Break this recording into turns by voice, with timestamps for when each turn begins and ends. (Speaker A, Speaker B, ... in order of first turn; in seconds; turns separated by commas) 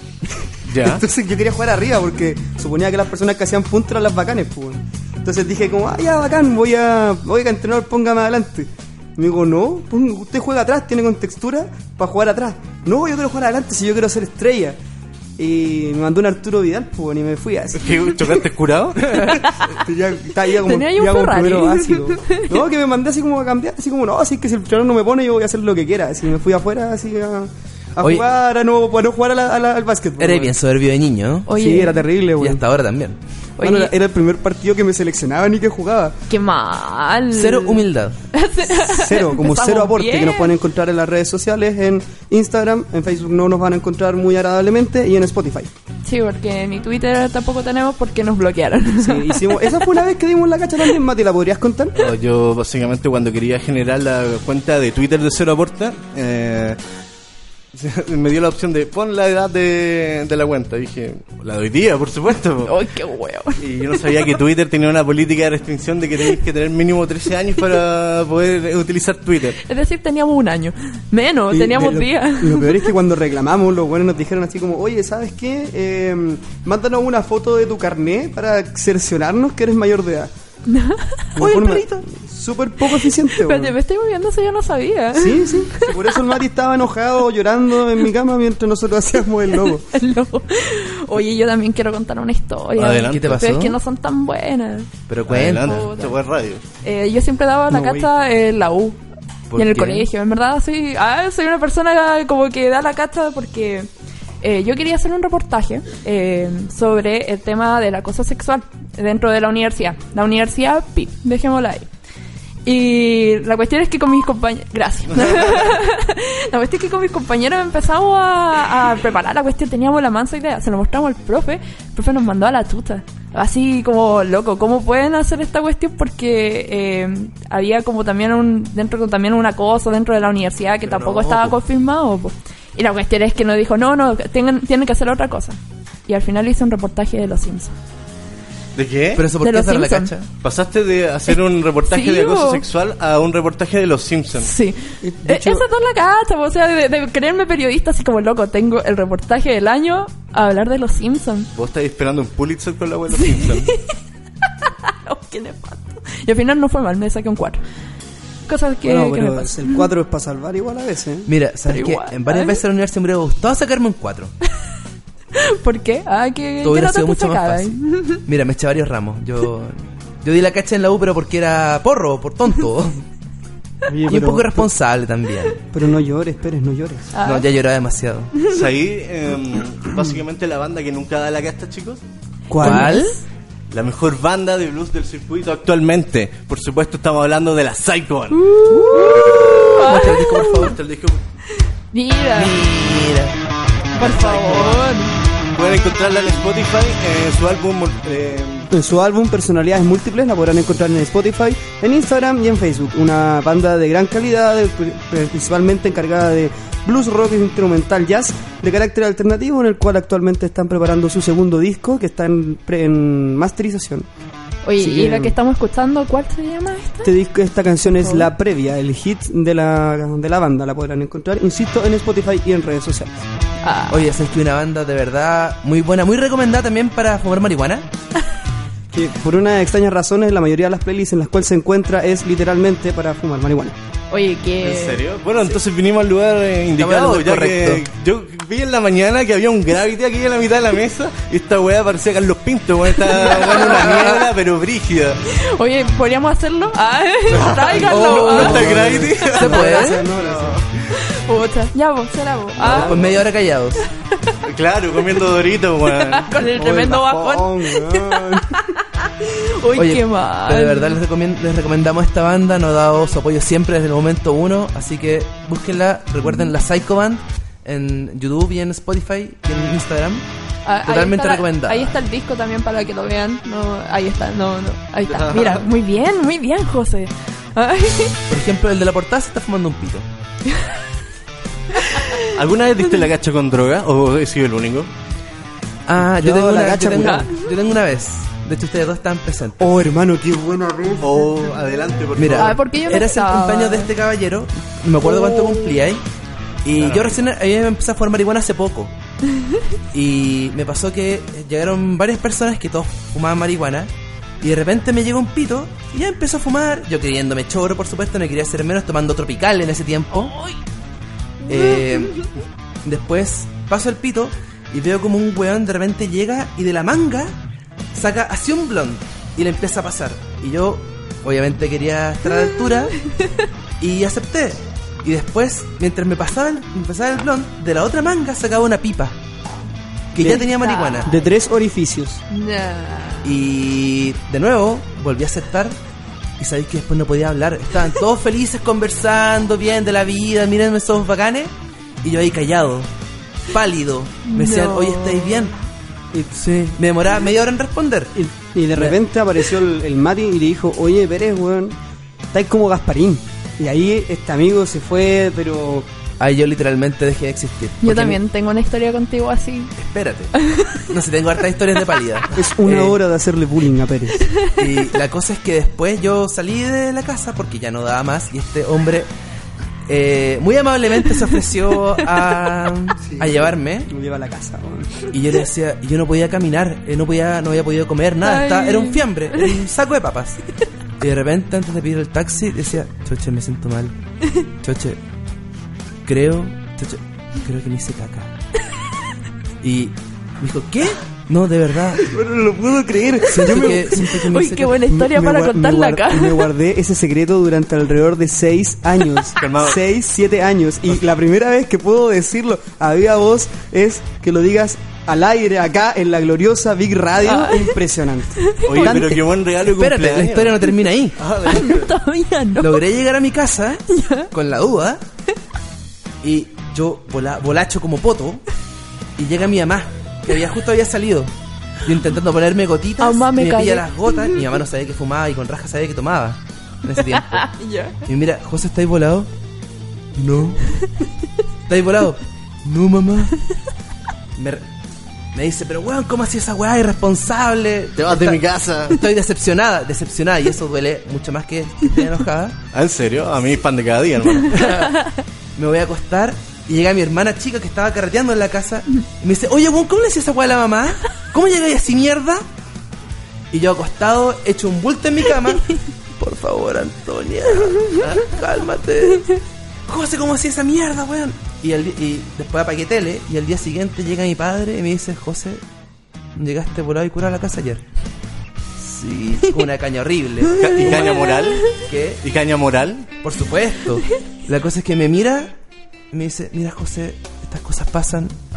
Speaker A: 0.7-1.0, Speaker B: 0.8-14.8, Speaker B: 15.4-18.4, Speaker A: 17.7-19.4, Speaker C: 19.3-19.6, Speaker B: 19.7-30.5, Speaker C: 20.6-22.6, Speaker D: 28.0-28.3, Speaker D: 30.2-31.5, Speaker C: 31.5-32.0, Speaker B: 31.5-32.6, Speaker D: 32.4-33.2, Speaker C: 33.6-33.9, Speaker B: 33.6-36.1, Speaker C: 36.3-40.5, Speaker D: 37.3-38.2, Speaker B: 38.7-45.7, Speaker C: 46.0-49.6, Speaker B: 49.0-52.1, Speaker A: 52.0-56.8, Speaker A: 57.7-62.8, Speaker C: 62.6-64.3, Speaker A: 63.6-69.6, Speaker C: 69.6-72.8, Speaker B: 71.5-80.3, Speaker C: 80.7-81.2, Speaker B: 81.3-83.8, Speaker D: 81.4-82.0, Speaker C: 83.3-85.9, Speaker B: 85.1-89.8, Speaker C: 89.7-94.9, Speaker A: 92.8-93.4, Speaker D: 92.9-93.8, Speaker D: 95.1-95.9, Speaker A: 95.3-96.6, Speaker C: 95.5-96.2, Speaker C: 96.8-99.0, Speaker B: 97.7-98.1, Speaker D: 99.5-100.1, Speaker C: 99.5-103.9, Speaker C: 104.4-111.9, Speaker C: 112.6-137.7, Speaker A: 115.1-115.8, Speaker D: 130.8-131.6, Speaker A: 138.7-139.3, Speaker D: 139.1-140.3, Speaker C: 139.4-140.1, Speaker A: 140.4-144.5, Speaker C: 141.3-142.6, Speaker C: 144.4-151.5, Speaker B: 145.0-145.6, Speaker A: 151.5-153.7, Speaker C: 153.2-153.9, Speaker C: 154.6-157.6, Speaker C: 158.5-159.8, Speaker B: 158.8-161.3, Speaker D: 161.3-164.3, Speaker C: 161.7-162.6, Speaker C: 165.3-168.2, Speaker D: 166.6-173.0, Speaker B: 173.8-174.7, Speaker D: 174.1-175.6, Speaker B: 175.7-177.1, Speaker C: 177.1-177.5, Speaker D: 177.2-178.3, Speaker A: 178.5-182.0, Speaker B: 182.5-182.9, Speaker C: 182.5-183.2, Speaker D: 182.6-183.2, Speaker A: 183.7-188.4, Speaker C: 188.4-190.7, Speaker D: 188.7-190.8, Speaker A: 190.4-191.2, Speaker C: 191.6-192.6, Speaker D: 192.3-193.3, Speaker C: 193.9-195.1, Speaker A: 194.0-194.8, Speaker A: 195.5-198.7, Speaker B: 198.7-214.1, Speaker C: 214.6-217.1, Speaker B: 214.8-215.3, Speaker B: 217.0-223.3, Speaker C: 217.8-218.3, Speaker C: 223.6-224.1, Speaker D: 223.9-227.9, Speaker B: 228.9-233.8, Speaker C: 234.1-235.0, Speaker A: 234.6-245.2, Speaker D: 236.7-237.8, Speaker C: 243.1-244.1, Speaker C: 245.3-248.7, Speaker A: 247.3-250.6, Speaker D: 247.8-250.1, Speaker B: 248.5-250.6, Speaker C: 250.9-253.1, Speaker D: 252.6-253.8, Speaker B: 252.6-253.0, Speaker A: 254.4-256.3, Speaker C: 255.9-261.0, Speaker B: 256.4-258.6, Speaker D: 259.7-270.2, Speaker C: 270.6-278.2, Speaker D: 270.8-272.0, Speaker A: 275.1-275.6, Speaker D: 278.3-280.1, Speaker C: 281.7-282.3, Speaker A: 282.2-284.9, Speaker D: 285.9-289.8, Speaker B: 286.0-287.3, Speaker C: 287.0-287.3, Speaker B: 289.6-291.2, Speaker A: 291.0-292.6, Speaker D: 292.1-296.0, Speaker C: 292.3-293.9, Speaker C: 295.1-295.8, Speaker D: 296.6-298.9, Speaker A: 296.8-297.2, Speaker D: 299.9-310.3, Speaker C: 310.1-310.6, Speaker D: 311.4-312.2, Speaker C: 311.5-312.3, Speaker D: 312.8-317.4, Speaker D: 317.9-322.9, Speaker D: 323.8-329.1, Speaker D: 330.1-331.2, Speaker B: 330.2-330.4, Speaker C: 330.2-331.2, Speaker B: 331.0-332.2, Speaker C: 332.3-333.4, Speaker D: 333.2-335.8, Speaker D: 336.4-342.9, Speaker D: 343.5-345.5, Speaker C: 344.3-345.5, Speaker B: 346.1-346.7, Speaker D: 346.6-348.1, Speaker B: 348.1-351.8, Speaker D: 348.7-349.0, Speaker B: 352.3-355.9, Speaker D: 356.2-358.2, Speaker C: 357.8-359.7, Speaker D: 359.8-363.0, Speaker C: 360.4-360.8, Speaker B: 362.3-364.3, Speaker C: 364.3-364.6, Speaker D: 364.6-369.1, Speaker D: 369.9-373.9, Speaker B: 373.0-375.1, Speaker D: 375.1-380.4, Speaker C: 378.2-379.6, Speaker D: 381.0-383.9, Speaker D: 384.6-385.0, Speaker D: 386.0-388.3, Speaker D: 389.6-392.0, Speaker B: 392.0-408.9, Speaker D: 393.2-394.8, Speaker C: 393.6-396.5, Speaker A: 399.4-399.8, Speaker C: 407.2-407.8, Speaker C: 408.4-409.2, Speaker A: 408.6-411.9, Speaker D: 409.6-411.2, Speaker C: 411.4-412.8, Speaker D: 412.6-415.0, Speaker C: 413.9-414.3, Speaker D: 416.2-418.4, Speaker D: 419.2-427.5, Speaker C: 423.0-424.4, Speaker C: 427.0-427.9, Speaker D: 428.0-429.3, Speaker D: 430.1-430.7, Speaker D: 431.7-433.3, Speaker D: 434.4-434.6, Speaker D: 435.3-442.6, Speaker A: 438.0-439.0, Speaker A: 442.7-444.7, Speaker D: 444.5-445.0, Speaker D: 445.6-452.4, Speaker D: 453.5-459.3, Speaker D: 459.9-465.6, Speaker D: 466.3-467.8, Speaker D: 468.8-471.2, Speaker A: 470.6-473.1, Speaker C: 470.6-471.7, Speaker D: 471.7-472.2, Speaker D: 473.2-475.5, Speaker D: 476.1-478.3